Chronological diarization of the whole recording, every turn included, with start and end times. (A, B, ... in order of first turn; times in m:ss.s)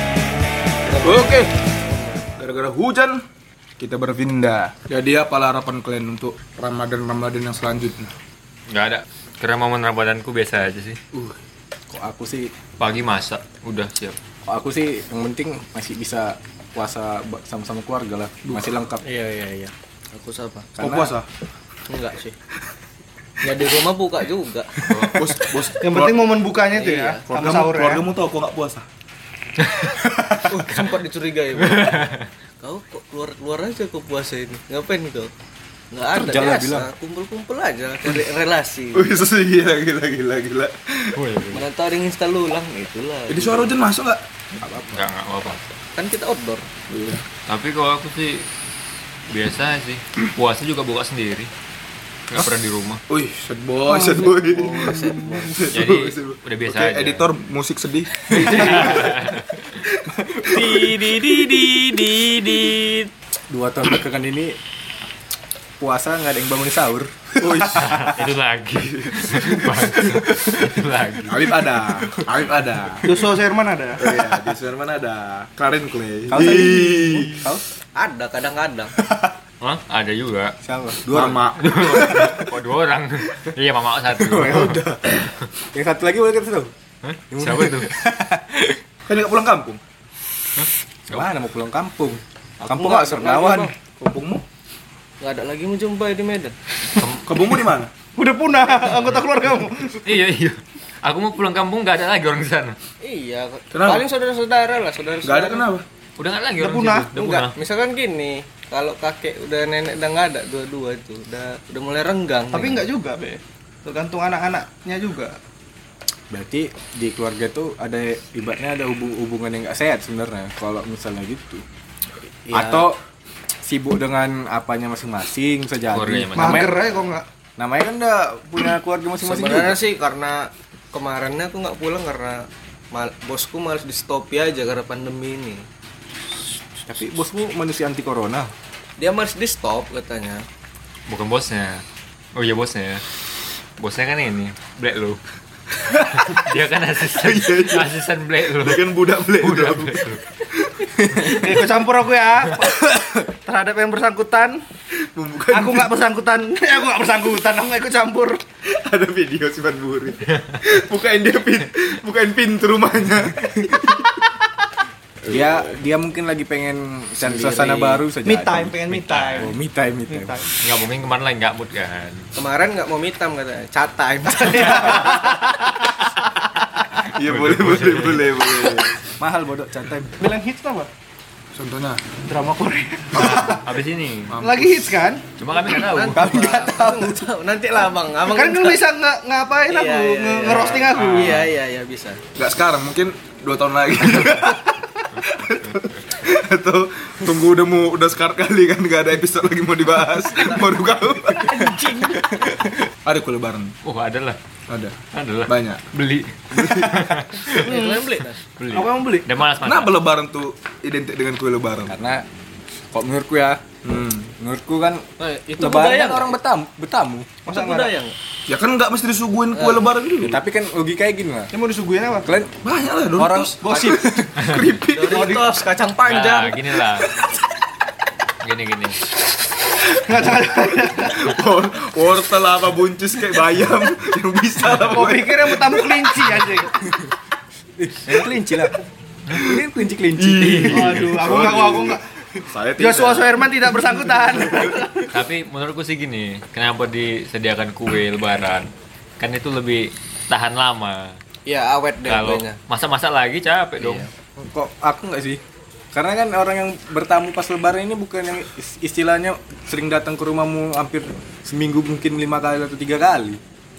0:01.0-0:01.5 A
0:02.3-0:03.2 A
0:03.8-0:08.1 A
0:08.7-0:11.0 B
0:11.9-0:12.5 C
0:12.8-0:14.2 B
0:14.5-0:19.0 C
0:19.0-0:20.7 D
0:20.8-0:21.1 C
0:20.8-0:21.3 A
0:21.9-0:22.4 D
0:23.4-0:24.7 D
0:24.9-0:25.3 B
0:25.1-0:26.5 A
0:25.8-0:28.0 E
0:26.7-0:27.2 D
0:27.2-0:28.8 A
0:29.6-0:29.9 B
0:30.4-0:32.0 D
0:31.6-0:32.3 B
0:32.6-0:35.3 D
0:35.9-0:39.2 D
0:36.1-0:36.9 C
0:38.9-0:41.2 A
0:41.1-0:41.6 B
0:41.5-0:43.8 D
0:43.3-0:44.2 A
0:44.6-0:45.0 C
0:44.9-0:45.6 B
0:46.0-0:46.7 D
0:46.9-0:47.2 A
0:47.4-0:48.5 B
0:49.3-0:51.5 B
0:52.3-0:53.0 B
0:53.1-0:59.1 A
0:54.2-0:55.2 C
0:54.4-0:55.6 D
0:55.7-0:57.3 B
0:58.3-0:59.6 B
0:58.3-0:59.3 C
1:00.1-1:01.0 A
1:00.1-1:02.9 C
1:01.4-1:01.7 B
1:03.5-1:04.6 C
1:05.8-1:08.3 C
1:07.4-1:08.0 A
1:07.7-1:11.7 B
1:08.8-1:09.7 A
1:09.8-1:10.6 C
1:11.3-1:13.3 A
1:13.0-1:14.0 E
1:14.0-1:17.4 A
1:14.1-1:14.4 C
1:16.3-1:17.6 C
1:17.9-1:18.9 D
1:19.0-1:19.4 C
1:19.6-1:20.5 B
1:20.6-1:21.4 C
1:21.1-1:22.4 A
1:21.5-1:24.8 B
1:24.1-1:26.7 C
1:27.0-1:27.9 B
1:27.3-1:28.8 C
1:29.1-1:29.8 A
1:30.6-1:31.2 B
1:31.1-1:33.7 C
1:32.6-1:33.7 D
1:34.0-1:34.4 A
1:35.2-1:36.6 D
1:37.2-1:37.9 A
1:38.1-1:40.2 E
1:40.0-1:42.8 B
1:43.0-1:45.7 D
1:43.7-1:44.0 A
1:45.2-1:45.8 A
1:46.2-1:47.5 B
1:46.6-1:47.5 E
1:47.5-1:52.8 D
1:52.5-1:55.4 E
1:56.3-2:01.6 C
2:02.4-2:02.9 D
2:02.5-2:03.0 C
2:03.6-2:06.8 C
2:05.9-2:06.8 B
2:06.3-2:07.2 E
2:07.6-2:09.8 C
2:09.2-2:15.6 D
2:16.8-2:18.5 C
2:19.0-2:20.4 D
2:21.1-2:23.0 B
2:23.8-2:25.2 B
2:25.8-2:30.2 B
2:27.0-2:28.0 A
2:28.5-2:31.6 A
2:31.4-2:34.6 E
2:35.0-2:36.0 A
2:35.5-2:38.4 E
2:38.6-2:44.3 A
2:45.2-2:48.8 C
2:47.2-2:48.0 D
2:48.2-2:49.5 E
2:48.9-2:49.5 B
2:49.4-2:50.4 C
2:50.1-2:50.5 E
2:50.6-2:52.2 B
2:52.3-2:55.5 D
2:54.4-2:55.7 E
2:57.0-2:59.0 A
2:57.2-2:58.4 B
2:59.2-3:00.2 C
3:00.2-3:00.9 E
3:01.5-3:02.2 A
3:02.2-3:03.6 E
3:03.1-3:03.6 A
3:03.1-3:04.4 B
3:04.3-3:04.9 A
3:04.4-3:05.2 E
3:05.4-3:06.5 B
3:05.7-3:08.8 D
3:06.1-3:07.2 C
3:08.3-3:11.4 E
3:09.7-3:12.2 D
3:10.4-3:11.5 B
3:12.4-3:23.7 A
3:21.4-3:22.2 D
3:23.8-3:24.4 B
3:24.7-3:25.9 A
3:25.1-3:27.6 B
3:26.5-3:27.1 A
3:27.5-3:28.4 D
3:27.6-3:28.1 E
3:28.6-3:30.0 B
3:28.7-3:29.3 E
3:29.6-3:32.0 A
3:31.9-3:32.2 C
3:32.9-3:33.6 C
3:33.8-3:34.3 A
3:34.4-3:35.0 C
3:35.2-3:36.4 D
3:35.6-3:37.9 C
3:37.4-3:38.2 D
3:38.5-3:40.4 A
3:39.5-3:39.8 D
3:40.2-3:41.5 C
3:41.5-3:42.3 E
3:42.2-3:42.6 C
3:42.6-3:45.4 A
3:43.2-3:44.4 C
3:43.6-3:44.0 E
3:44.9-3:46.8 D
3:45.1-3:45.4 E
3:46.0-3:47.1 B
3:48.4-3:49.0 B
3:49.9-3:51.2 E
3:50.8-3:56.4 A
3:54.8-3:56.8 E
3:57.8-3:58.8 C
3:59.3-3:59.6 A
3:59.3-4:01.2 C
4:00.2-4:04.8 A
4:00.6-4:02.0 E
4:02.8-4:05.1 E
4:05.1-4:11.2 B
4:11.4-4:12.6 D
4:12.0-4:14.1 B
4:13.8-4:14.1 D
4:14.4-4:15.4 C
4:15.9-4:23.4 C